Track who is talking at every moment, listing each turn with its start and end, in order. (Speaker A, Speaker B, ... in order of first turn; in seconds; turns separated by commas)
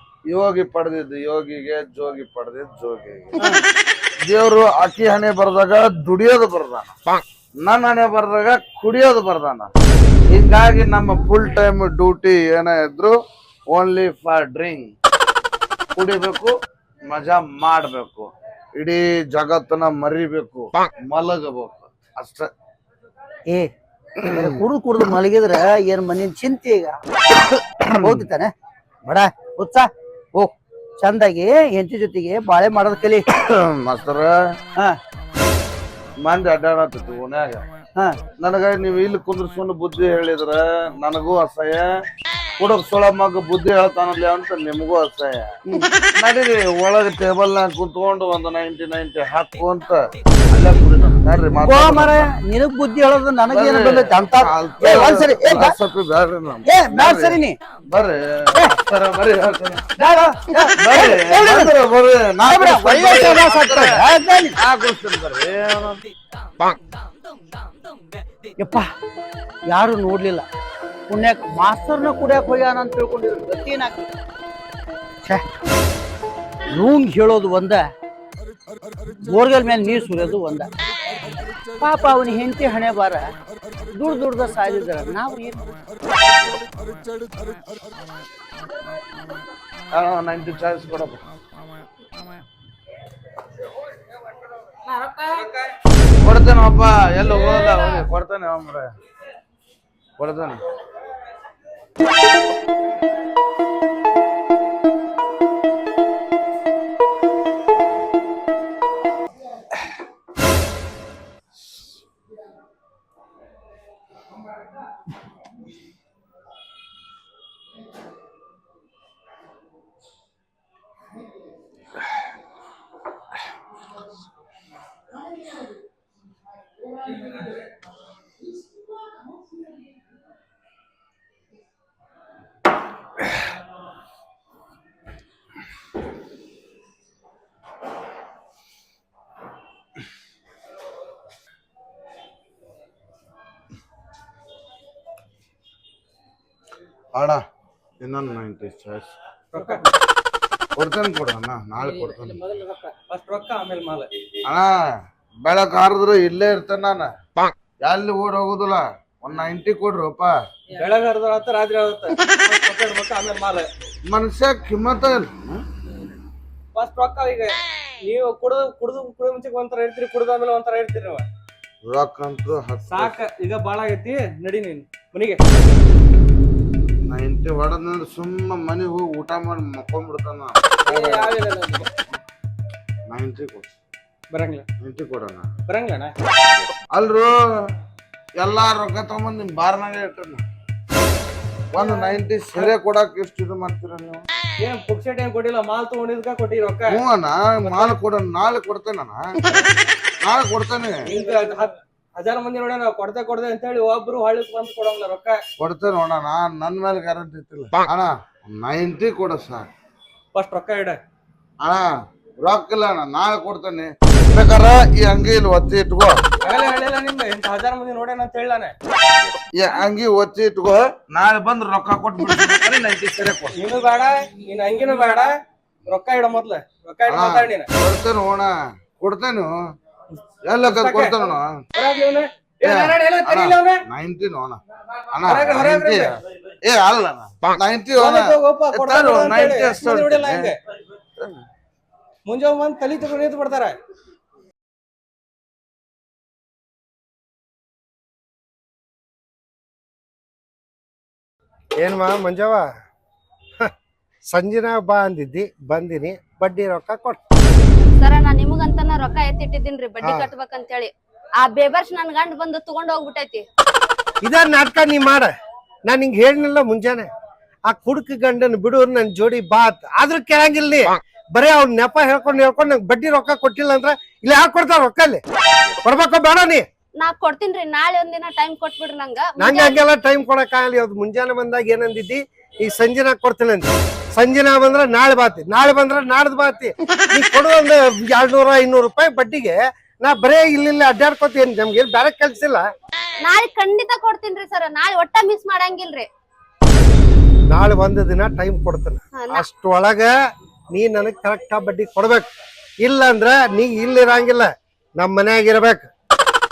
Speaker A: 0.3-3.5, Speaker B: 3.4-3.6, Speaker A: 4.2-7.0, Speaker A: 7.6-9.7, Speaker A: 10.3-13.2, Speaker A: 13.7-14.9, Speaker A: 15.9-16.5, Speaker A: 17.1-22.5, Speaker B: 24.3-27.0, Speaker A: 27.8-28.2, Speaker B: 28.0-28.5, Speaker B: 29.1-33.3, Speaker A: 33.3-34.3, Speaker A: 36.2-37.7, Speaker B: 38.0-38.2, Speaker A: 38.4-41.9, Speaker A: 42.6-45.5, Speaker A: 46.1-52.3, Speaker B: 51.6-55.8, Speaker A: 53.5-60.0, Speaker B: 56.6-57.6, Speaker B: 60.0-61.8, Speaker A: 60.8-64.0, Speaker B: 62.5-64.6, Speaker A: 64.5-66.1, Speaker B: 68.6-68.9, Speaker B: 69.7-70.5, Speaker B: 71.1-74.1, Speaker B: 76.7-77.9, Speaker B: 79.2-80.7, Speaker B: 81.8-83.3, Speaker B: 83.9-85.6, Speaker A: 89.9-91.2, Speaker A: 96.2-98.9, Speaker A: 100.2-100.6, Speaker A: 147.1-147.4, Speaker A: 148.0-149.6, Speaker C: 149.5-149.9, Speaker A: 150.8-152.4, Speaker C: 151.8-154.1, Speaker A: 154.5-154.7, Speaker A: 155.4-157.1, Speaker A: 157.8-160.4, Speaker C: 160.7-163.7, Speaker A: 164.1-165.6, Speaker C: 166.8-167.5, Speaker C: 168.1-171.3, Speaker A: 171.9-173.2, Speaker C: 172.9-175.4, Speaker A: 177.1-181.3, Speaker C: 180.8-181.9, Speaker A: 183.1-183.7, Speaker C: 184.3-184.7, Speaker A: 184.8-185.5, Speaker C: 185.7-186.1, Speaker A: 186.9-187.4, Speaker A: 188.4-190.4, Speaker A: 191.7-194.2, Speaker C: 191.8-192.7, Speaker C: 194.6-197.0, Speaker A: 196.9-199.2, Speaker C: 197.7-198.0, Speaker A: 200.2-201.1, Speaker C: 201.1-205.4, Speaker A: 205.6-209.7, Speaker C: 210.3-211.0, Speaker A: 211.6-211.9, Speaker A: 212.4-216.2, Speaker C: 216.4-218.7, Speaker A: 219.5-223.6, Speaker C: 223.6-227.7, Speaker A: 227.1-229.5, Speaker A: 230.5-231.6, Speaker C: 230.6-233.8, Speaker A: 232.6-234.6, Speaker A: 235.1-240.5, Speaker C: 235.2-236.2, Speaker C: 238.0-240.6, Speaker C: 242.3-243.8, Speaker D: 251.8-252.7, Speaker D: 254.3-257.2, Speaker E: 258.0-263.4, Speaker D: 260.0-260.3, Speaker D: 264.2-265.3, Speaker D: 265.9-267.1, Speaker D: 267.7-275.2, Speaker D: 275.8-276.6, Speaker E: 277.0-279.8, Speaker D: 279.4-292.7, Speaker E: 293.2-296.1, Speaker D: 297.5-300.1, Speaker E: 299.1-299.4, Speaker D: 300.7-302.3, Speaker D: 302.8-305.9